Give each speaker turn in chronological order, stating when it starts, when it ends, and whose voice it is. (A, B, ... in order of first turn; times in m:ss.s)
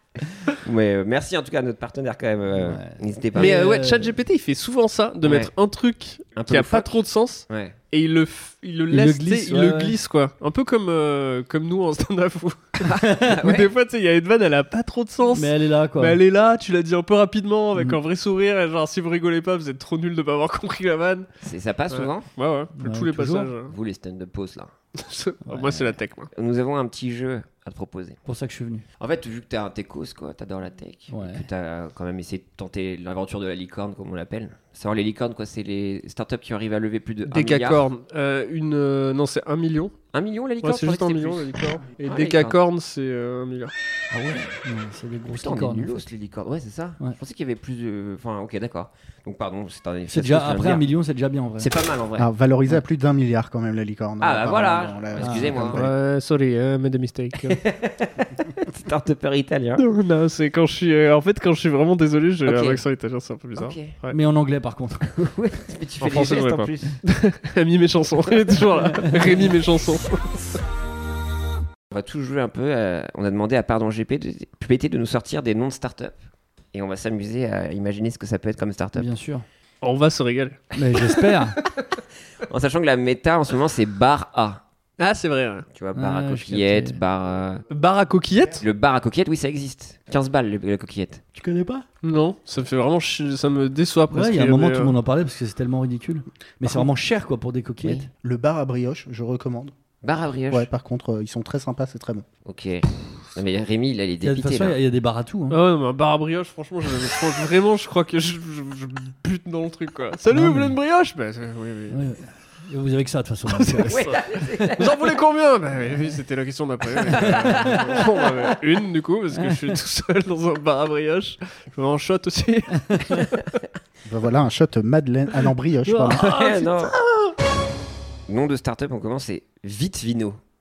0:00.6-0:03.6 A
0:02.6-0:04.2 B
0:03.3-0:21.3 C
0:05.2-0:05.5 A
0:06.4-0:07.7 A
0:08.9-0:10.0 B
0:12.8-0:13.7 A
0:12.9-0:13.4 B
0:15.3-0:16.2 B
0:21.4-0:22.3 A
0:21.9-0:23.7 C
0:22.8-0:23.5 B
0:23.7-0:24.7 A
0:25.0-0:26.3 C
0:25.4-0:25.9 B
0:26.3-0:28.2 A
0:28.2-0:28.8 B
0:29.0-0:37.8 A
0:31.1-0:31.5 B
0:37.3-0:39.9 C
0:40.1-0:42.6 A
0:40.6-0:43.7 C
0:44.1-0:46.0 B
0:45.4-0:50.8 A
0:50.1-0:51.7 B
0:51.6-0:52.3 A
0:52.2-0:55.9 D
0:54.2-0:55.8 A
0:55.2-0:55.8 B
0:55.7-0:57.6 C
0:57.4-0:59.8 A
0:59.8-1:04.2 C
1:02.4-1:02.8 A
1:03.6-1:03.9 A
1:04.1-1:05.1 B
1:05.0-1:07.0 A
1:06.0-1:10.4 C
1:08.9-1:09.3 B
1:11.9-1:16.2 A
1:16.7-1:19.1 A
1:19.0-1:19.4 B
1:19.8-1:20.7 C
1:20.7-1:21.6 B
1:22.4-1:24.6 A
1:25.0-1:25.6 C
1:25.7-1:27.6 A
1:25.9-1:27.0 B
1:27.7-1:28.6 C
1:28.6-1:31.2 A
1:31.4-1:31.8 B
1:32.0-1:34.9 C
1:34.1-1:38.1 B
1:38.2-1:39.7 D
1:40.0-1:40.7 A
1:40.5-1:42.2 D
1:42.4-1:44.8 A
1:44.2-1:45.6 B
1:45.5-1:52.0 C
1:50.3-1:50.7 B
1:51.9-1:54.1 B
1:53.5-2:03.4 C
1:53.9-1:55.1 A
1:57.0-1:58.5 A
1:57.2-1:57.8 B
1:59.3-1:59.8 B
2:02.8-2:03.2 B
2:04.0-2:06.2 D
2:05.8-2:07.3 C
2:06.1-2:06.9 A
2:08.3-2:10.4 A